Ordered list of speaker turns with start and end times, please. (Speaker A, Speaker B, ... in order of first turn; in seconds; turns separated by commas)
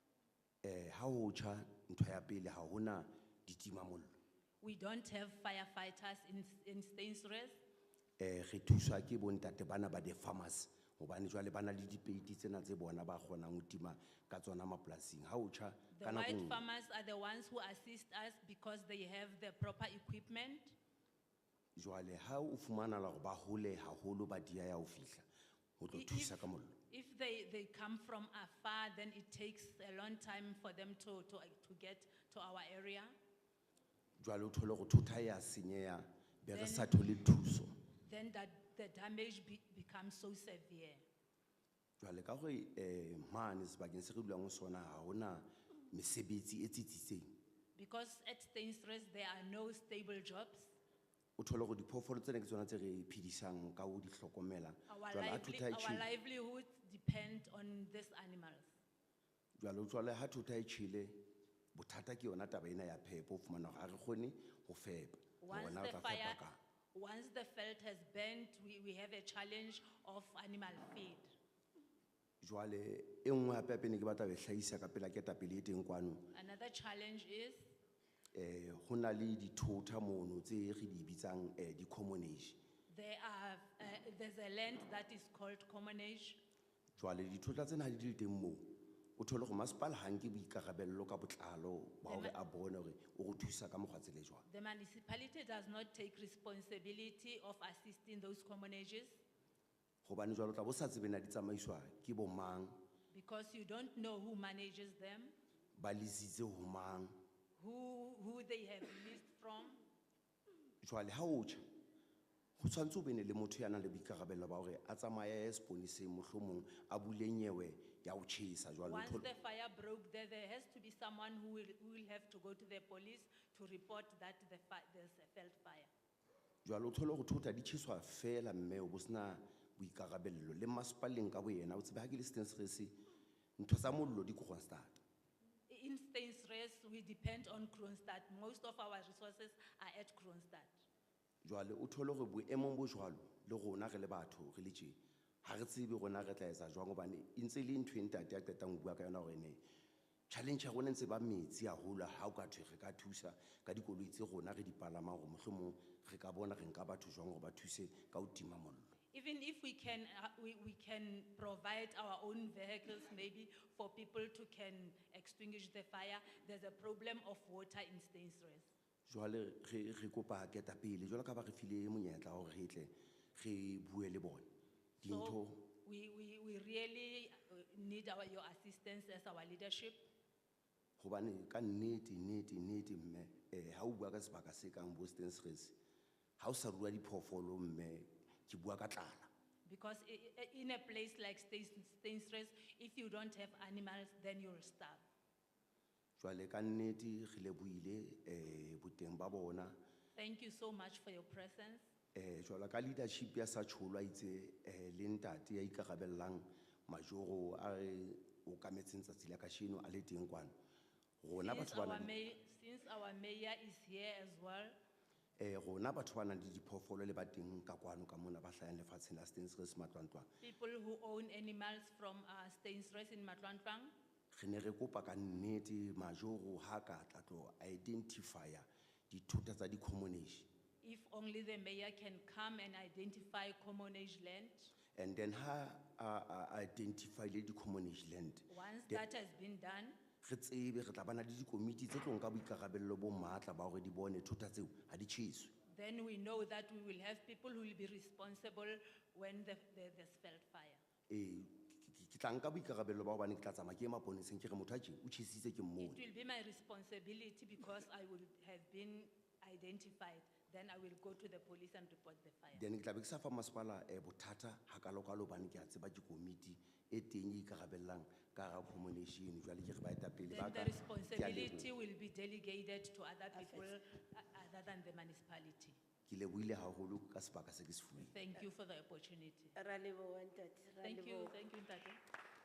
Speaker A: 0.6-4.1, Speaker B: 4.6-7.6, Speaker A: 8.2-16.6, Speaker B: 15.9-20.8, Speaker A: 21.8-25.2, Speaker A: 25.8-26.8, Speaker B: 25.9-33.1, Speaker A: 34.2-37.8, Speaker B: 36.5-37.0, Speaker B: 38.0-41.0, Speaker A: 42.0-47.3, Speaker B: 47.8-50.7, Speaker A: 51.4-56.1, Speaker B: 54.9-58.7, Speaker A: 59.6-61.2, Speaker A: 61.7-66.6, Speaker B: 65.4-71.3, Speaker A: 72.4-76.3, Speaker B: 76.3-77.7, Speaker A: 78.3-82.6, Speaker B: 82.9-86.4, Speaker A: 87.0-94.5, Speaker B: 92.1-92.4, Speaker B: 94.5-99.2, Speaker A: 100.0-102.8, Speaker B: 103.1-105.3, Speaker A: 105.8-107.1, Speaker B: 107.6-109.8, Speaker A: 110.8-111.6, Speaker A: 112.6-119.3, Speaker B: 118.8-125.9, Speaker A: 126.6-133.0, Speaker A: 133.6-135.0, Speaker B: 135.7-140.8, Speaker A: 141.4-149.6, Speaker A: 150.3-158.9, Speaker B: 159.1-168.7, Speaker A: 169.1-174.5, Speaker A: 175.0-175.7, Speaker B: 175.0-180.1, Speaker A: 181.0-185.8, Speaker A: 186.4-189.3, Speaker B: 189.7-195.0, Speaker A: 196.2-199.8, Speaker B: 200.2-201.8, Speaker A: 202.1-210.5, Speaker A: 211.2-212.1, Speaker B: 211.3-214.8, Speaker A: 215.4-220.3, Speaker B: 220.4-223.9, Speaker A: 224.3-230.5, Speaker B: 230.8-234.7, Speaker A: 234.9-239.0, Speaker B: 238.5-240.0, Speaker A: 240.2-245.5, Speaker B: 245.7-250.8, Speaker A: 251.1-256.0, Speaker B: 255.8-262.6, Speaker A: 262.5-271.7, Speaker B: 270.3-275.8, Speaker C: 273.3-273.7, Speaker A: 276.1-278.1, Speaker B: 278.0-279.6, Speaker C: 279.6-281.4, Speaker B: 280.8-282.0